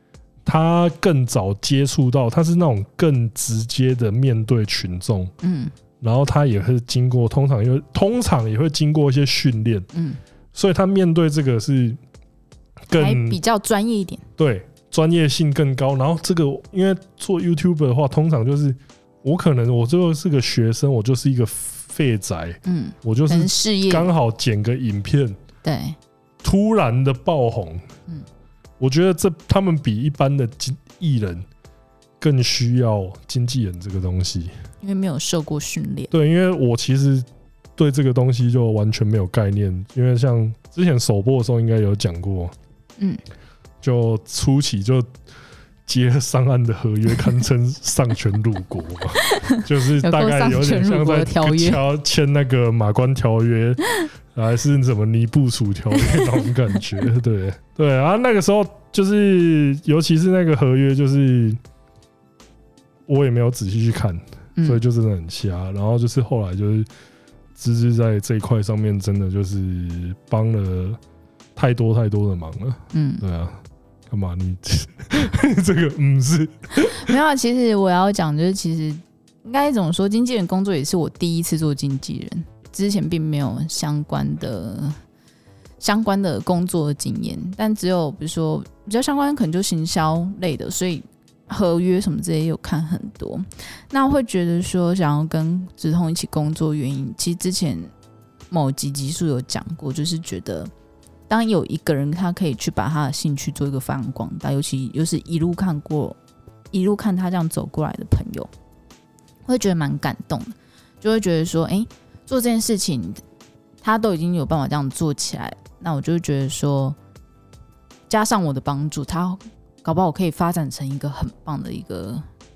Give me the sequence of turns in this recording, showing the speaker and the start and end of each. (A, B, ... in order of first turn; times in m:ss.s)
0:00.4-0:05.3 A
0:05.4-0:05.7 B
0:06.0-0:09.9 A
0:09.9-0:10.2 B
0:10.5-0:12.0 A
0:12.9-0:13.4 A
0:12.9-0:14.2 B
0:14.4-0:25.4 A
0:22.6-0:24.1 B
0:25.6-0:26.0 B
0:26.4-0:27.9 A
0:28.8-0:31.4 A
0:32.2-0:34.5 A
0:34.8-0:36.1 B
0:36.1-0:42.5 A
0:43.8-0:45.1 A
0:45.9-1:01.6 A
0:50.0-0:51.8 B
1:03.1-1:06.9 A
1:07.6-1:11.0 A
1:11.6-1:17.1 A
1:12.9-1:13.2 B
1:17.0-1:25.0 B
1:25.8-1:37.9 B
1:38.5-1:40.7 B
1:41.3-1:46.2 B
1:46.7-1:48.5 B
1:49.5-1:53.2 B
1:53.8-1:57.0 B
1:58.1-2:02.2 B